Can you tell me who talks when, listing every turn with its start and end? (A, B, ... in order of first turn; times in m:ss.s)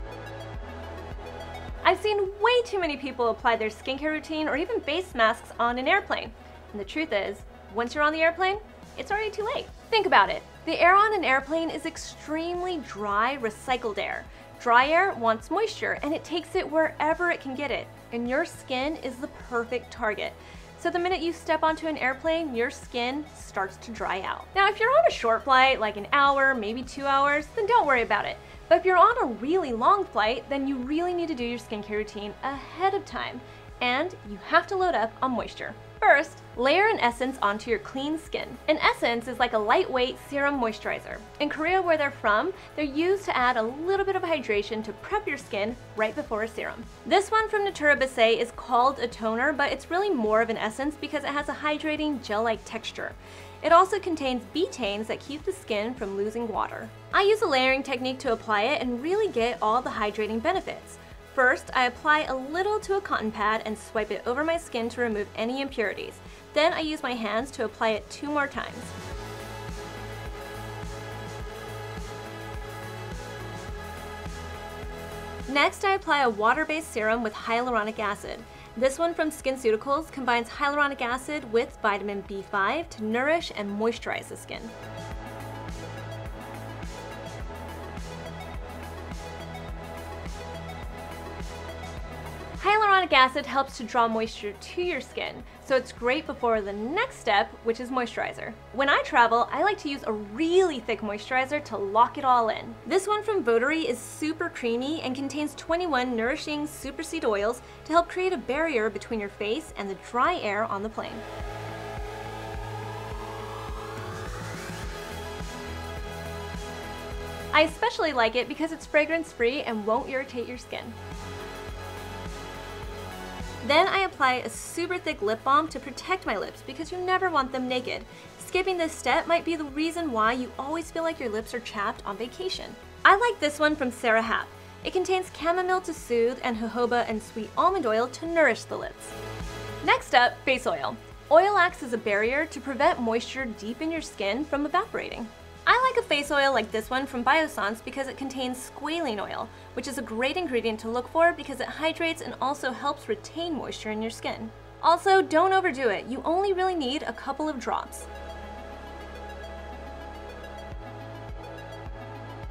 0:01.8-1:08.9 A
1:15.5-1:24.7 A
1:32.6-1:51.2 A
1:57.5-2:01.0 A
2:03.6-2:19.1 A
2:19.8-2:38.1 A